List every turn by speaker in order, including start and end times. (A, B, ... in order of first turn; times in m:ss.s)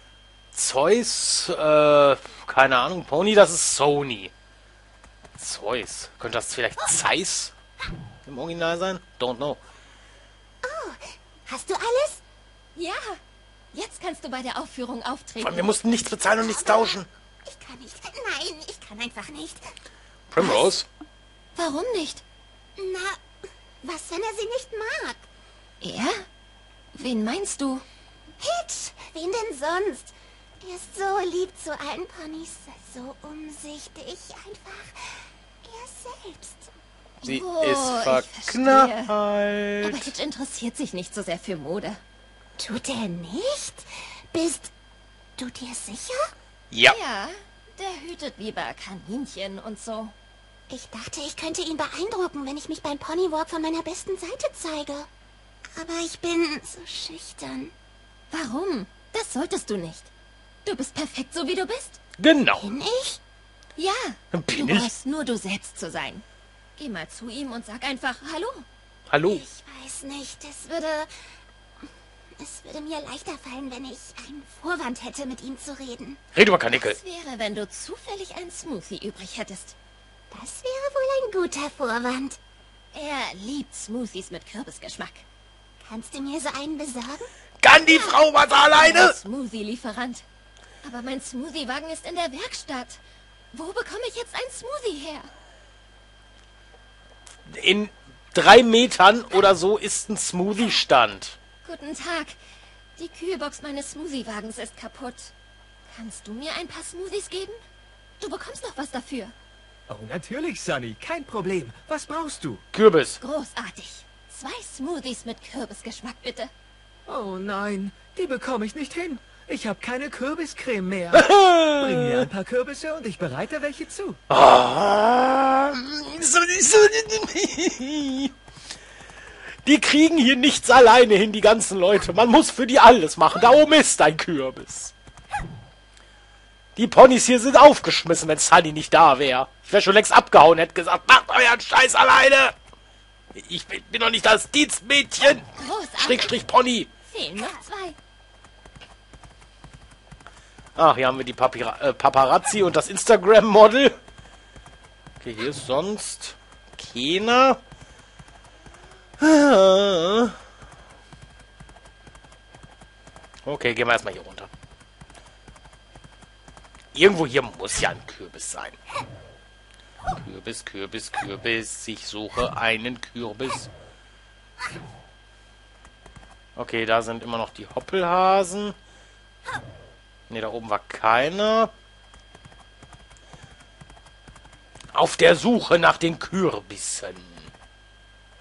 0:00.5-0:04.3 A
0:05.4-0:07.5 A
0:08.3-0:09.6 A
0:10.6-0:12.2 B
0:12.8-0:13.2 C
0:13.7-0:15.7 C
0:15.4-0:17.1 A
0:16.4-0:19.7 B
0:20.3-0:20.9 A
0:21.6-0:22.2 C
0:22.8-0:23.2 B
0:23.8-0:25.2 B
0:25.8-0:26.2 C
0:26.9-0:27.8 C
0:28.4-0:36.7 B
0:37.2-0:39.1 C
0:37.2-0:40.2 A
0:39.8-0:42.0 C
0:42.6-0:44.7 B
0:45.4-0:46.3 B
0:46.7-0:47.0 A
0:46.9-0:50.1 C
0:50.7-0:55.1 B
0:55.8-0:57.7 B
0:58.3-1:00.1 C
1:00.6-1:02.0 C
1:02.2-1:02.7 A
1:02.6-1:03.2 B
1:03.8-1:06.2 C
1:04.3-1:04.9 A
1:06.8-1:08.6 C
1:09.1-1:09.4 A
1:09.3-1:11.1 B
1:12.4-1:16.2 B
1:16.3-1:17.0 A
1:16.8-1:19.8 C
1:20.3-1:22.4 B
1:22.9-1:25.2 C
1:25.8-1:27.3 B
1:27.6-1:29.2 A
1:27.9-1:28.2 C
1:28.7-1:30.2 C
1:30.8-1:33.0 C
1:33.5-1:35.3 C
1:37.5-1:41.4 A
1:41.6-1:42.4 C
1:43.0-1:45.3 C
1:45.9-1:47.6 C
1:48.2-1:49.3 C
1:49.9-1:52.6 D
1:52.7-1:53.2 A
1:53.2-1:56.5 C
1:57.1-2:04.2 D
2:01.1-2:02.3 A
2:04.3-2:08.3 A
2:09.6-2:14.9 A
2:16.8-2:22.5 A
2:23.4-2:26.9 A
2:25.6-2:26.4 C
2:27.1-2:28.0 C
2:30.8-2:34.0 A
2:35.2-2:37.6 A
2:39.2-2:40.4 A
2:43.5-2:44.5 A
2:46.9-2:48.8 A
2:50.1-2:53.7 A
2:56.6-2:58.8 A
3:00.3-3:01.7 A
3:04.9-3:07.5 A